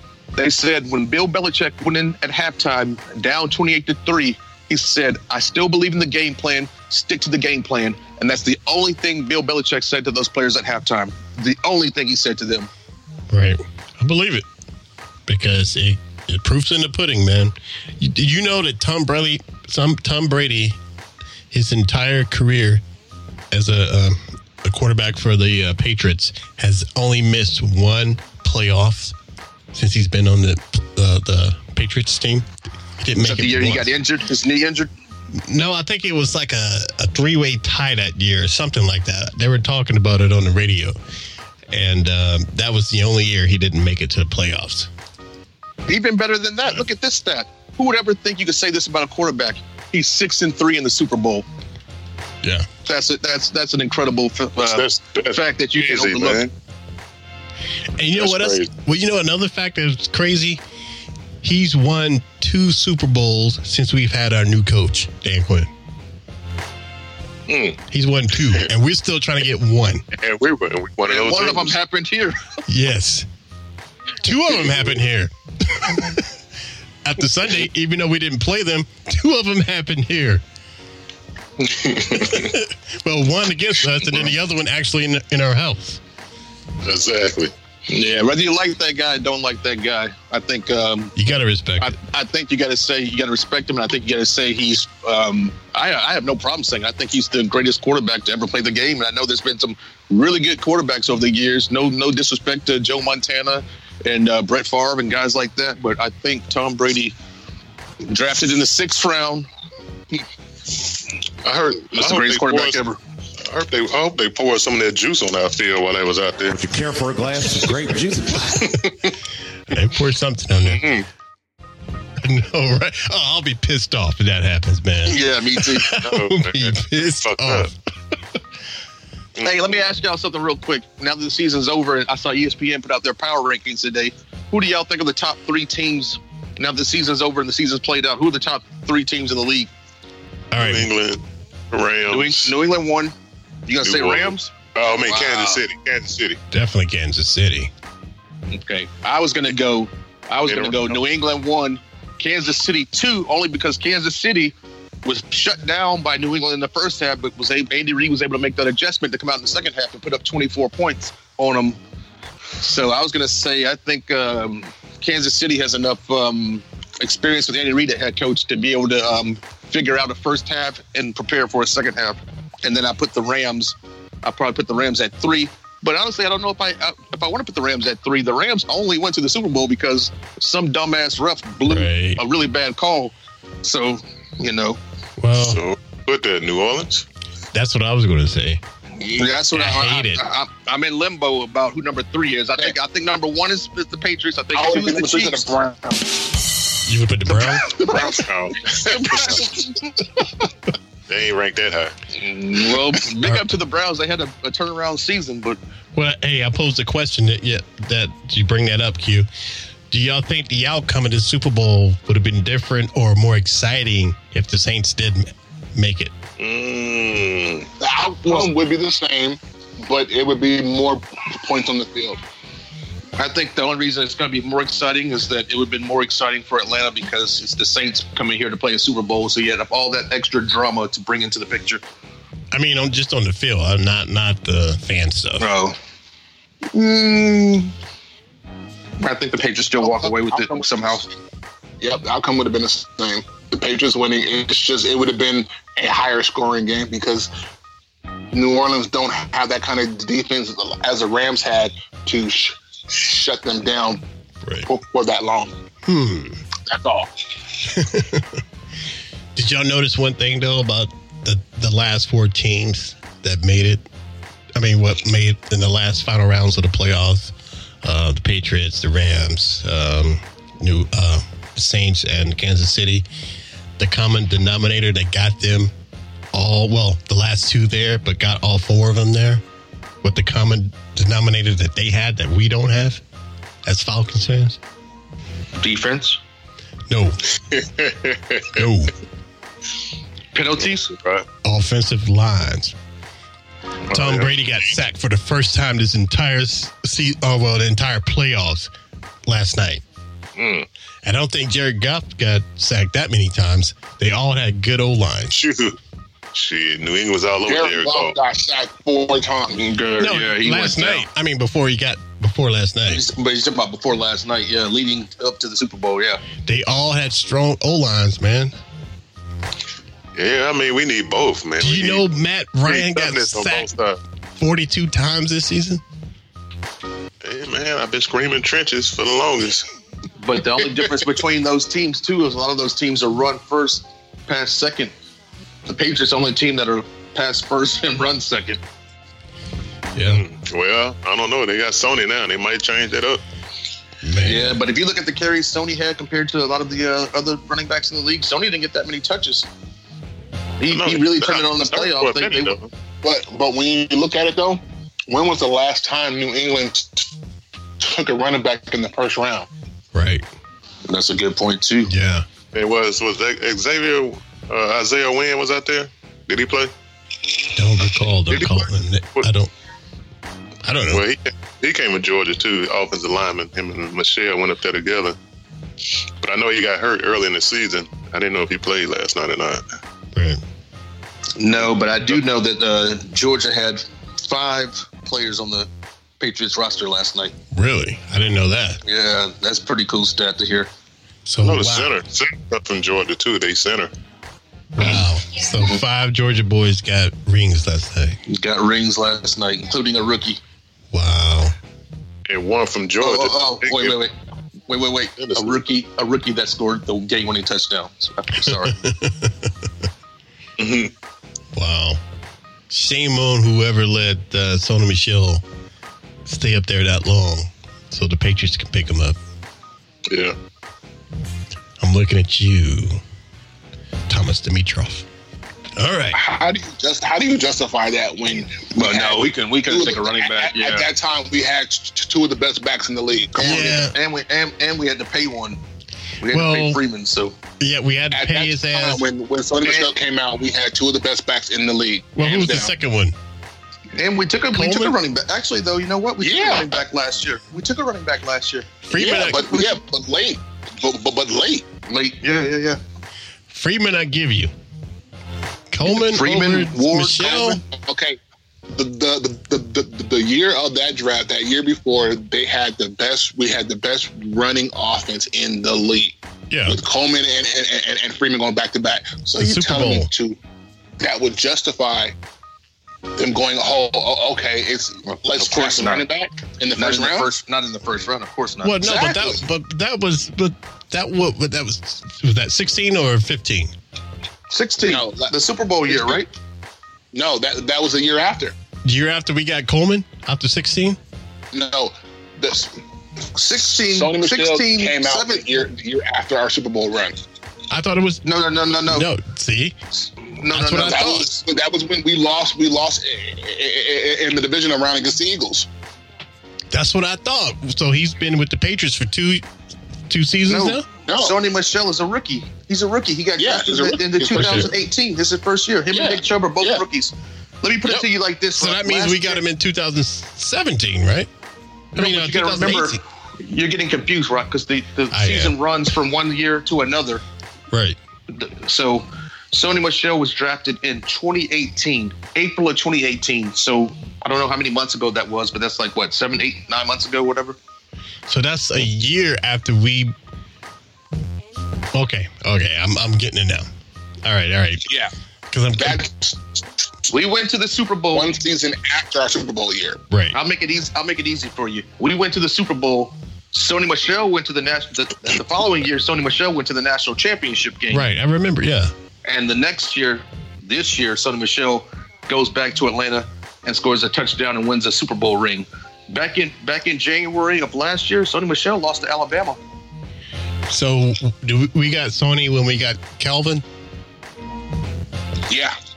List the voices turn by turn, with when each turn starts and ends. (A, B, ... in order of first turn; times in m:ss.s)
0:00.4-0:12.7 A
0:13.3-0:14.5 B
0:15.3-0:20.8 B
0:21.5-0:22.8 B
0:23.5-0:29.1 B
0:29.7-0:32.5 B
0:33.0-0:33.9 B
0:33.2-0:34.9 A
0:35.4-0:41.0 B
0:41.7-0:44.9 B
0:45.9-0:51.4 A
0:52.4-0:52.7 B
0:52.8-0:56.5 A
0:54.6-0:56.5 C
0:58.0-1:00.6 B
0:58.2-0:58.7 C
1:01.4-1:05.7 B
1:07.5-1:07.8 C
1:07.9-1:10.0 B
1:10.1-1:11.8 C
1:11.1-1:12.4 A
1:12.7-1:13.2 B
1:14.2-1:16.3 B
1:17.0-1:20.4 B
1:21.8-1:22.5 C
1:22.2-1:26.0 B
1:26.8-1:27.5 C
1:27.9-1:31.1 A
1:31.2-1:31.9 B
1:31.8-1:47.1 A
1:48.0-1:49.5 A
1:51.4-1:52.8 C
1:51.9-1:53.0 A
1:53.4-1:56.6 C
1:56.5-1:58.7 D
1:59.7-2:00.8 B
2:00.6-2:01.0 C
2:02.2-2:07.7 B
2:05.0-2:06.0 A
2:05.9-2:07.7 C
2:09.4-2:09.8 C
2:09.4-2:19.7 A
2:20.5-2:20.9 B
2:20.6-2:22.5 C
2:22.1-2:23.1 A
2:23.7-2:25.6 A
2:23.8-2:26.4 C
2:26.5-2:27.7 B
2:28.5-2:34.5 A
2:30.4-2:31.0 C
2:35.0-2:41.8 A
2:42.6-3:04.8 A
3:01.6-3:02.2 B
3:05.2-3:05.6 B
3:05.4-3:07.0 C
3:07.5-3:08.6 B
3:09.1-3:15.5 A
3:09.5-3:10.3 B
3:14.5-3:16.2 E
3:16.8-3:17.7 B
3:17.6-3:18.3 E
3:17.8-3:19.9 A
3:18.0-3:19.4 C
3:19.0-3:19.5 E
3:21.1-3:21.9 C
3:22.1-3:25.6 A
3:23.2-3:23.5 B
3:25.9-3:29.3 B
3:29.9-3:36.1 B
3:36.4-3:37.7 C
3:37.8-3:42.2 E
3:43.2-3:51.8 A
3:52.5-3:55.4 B
3:55.4-3:55.8 A
3:56.7-3:57.7 A
3:59.0-4:01.1 A
3:59.8-4:00.7 E
4:01.8-4:07.3 E
4:08.3-4:14.0 E
4:14.4-4:14.7 B
4:14.6-4:15.5 E
4:15.8-4:16.4 B
4:16.7-4:17.1 E
4:17.6-4:18.4 B
4:19.3-4:23.8 B
4:24.5-4:33.0 B
4:33.8-4:35.7 B
4:36.3-4:39.4 B
4:40.0-4:43.0 B
4:43.6-4:44.6 B
4:45.6-4:46.2 A
4:46.9-4:47.2 B
4:47.5-4:48.5 C
4:48.5-4:48.9 B
4:50.3-4:50.9 A
4:50.7-4:51.2 C
4:51.4-4:52.7 B
4:53.9-4:54.4 C
4:53.9-4:58.7 B
4:59.2-4:59.8 B
5:00.4-5:00.7 C
5:01.0-5:05.4 B
5:05.3-5:05.8 C
5:06.3-5:08.2 C
5:07.4-5:09.7 E
5:09.5-5:11.0 A
5:10.0-5:13.0 B
5:12.9-5:16.2 A
5:16.4-5:18.5 B
5:20.2-5:22.1 C
5:21.6-5:23.7 B
5:22.6-5:24.0 C
5:24.4-5:25.8 B
5:27.2-5:29.6 C
5:30.2-5:34.9 A
5:35.6-5:38.6 A
5:39.9-5:40.2 B
5:40.1-5:43.2 C
5:44.0-5:44.6 B
5:44.2-5:49.5 A
5:50.6-5:52.6 A
5:50.7-5:52.7 C
5:53.0-5:57.1 E
5:57.8-5:59.5 E
5:59.9-6:00.2 B
6:00.9-6:01.9 A
6:01.8-6:02.2 B
6:02.5-6:06.7 C
6:07.5-6:09.5 B
6:08.3-6:09.3 C
6:10.6-6:11.0 B
6:10.9-6:15.2 C
6:16.2-6:19.6 C
6:20.1-6:20.4 B
6:21.4-6:25.7 A
6:26.2-6:27.3 A
6:27.5-6:28.8 B
6:28.8-6:30.7 A
6:31.2-6:31.9 B
6:31.4-6:33.9 C
6:34.8-6:38.2 B
6:38.3-6:40.4 A
6:40.9-6:41.5 B
6:42.3-6:44.0 C
6:43.0-6:44.1 A
6:44.7-6:48.8 A
6:45.2-6:45.6 C
6:48.4-6:49.5 B
6:50.6-6:50.9 C
6:51.5-6:52.0 B
6:52.7-6:55.4 B
6:56.2-6:59.2 B
7:00.1-7:00.4 C
7:01.8-7:03.0 B
7:04.1-7:05.0 B
7:05.8-7:06.2 B
7:06.1-7:13.9 E
7:08.7-7:10.9 A
7:13.4-7:13.9 B
7:13.7-7:15.6 A
7:16.2-7:17.3 A
7:16.3-7:16.8 B
7:17.6-7:19.1 B
7:18.1-7:22.7 E
7:19.6-7:19.9 A
7:22.2-7:23.1 B
7:24.0-7:28.8 A
7:24.5-7:25.0 B
7:26.2-7:26.8 E
7:28.8-7:29.8 B
7:28.9-7:31.7 E
7:31.8-7:32.8 A
7:33.5-7:34.5 B
7:35.7-7:37.6 B
7:35.8-7:37.6 A
7:37.2-7:38.2 E
7:38.7-7:50.4 E
7:46.5-7:46.8 B
7:49.4-7:50.1 B
7:51.0-7:52.1 E
7:53.2-7:57.3 E
7:55.3-7:56.0 A
7:56.7-7:59.4 A
7:58.6-8:03.7 B
8:04.5-8:06.3 A
8:04.8-8:06.2 E
8:07.1-8:08.5 E
8:08.8-8:11.0 B
8:11.5-8:12.8 E
8:13.3-8:15.4 A
8:13.6-8:17.2 E
8:17.7-8:18.2 B
8:18.2-8:19.1 A
8:18.8-8:19.8 B
8:20.4-8:21.2 A
8:20.5-8:21.3 B
8:20.7-8:25.7 E
8:26.7-8:29.4 B
8:30.1-8:30.8 B
8:30.4-8:39.4 A
8:31.1-8:31.4 E
8:33.4-8:34.8 E
8:34.3-8:34.7 B
8:35.9-8:36.8 E
8:38.6-8:41.3 B
8:41.9-8:47.2 A
8:42.0-8:43.0 B
8:45.1-8:45.6 B
8:47.7-8:48.0 B
8:48.3-8:57.6 A
8:58.3-9:00.1 B
9:01.9-9:03.6 B
9:04.2-9:04.8 B
9:05.5-9:06.0 B
9:05.8-9:06.6 E
9:07.1-9:08.4 A
9:08.1-9:10.0 E
9:10.1-9:10.4 B
9:10.3-9:18.0 A
9:17.9-9:18.9 B
9:19.2-9:29.6 A
9:30.7-9:33.6 B
9:35.5-9:35.8 E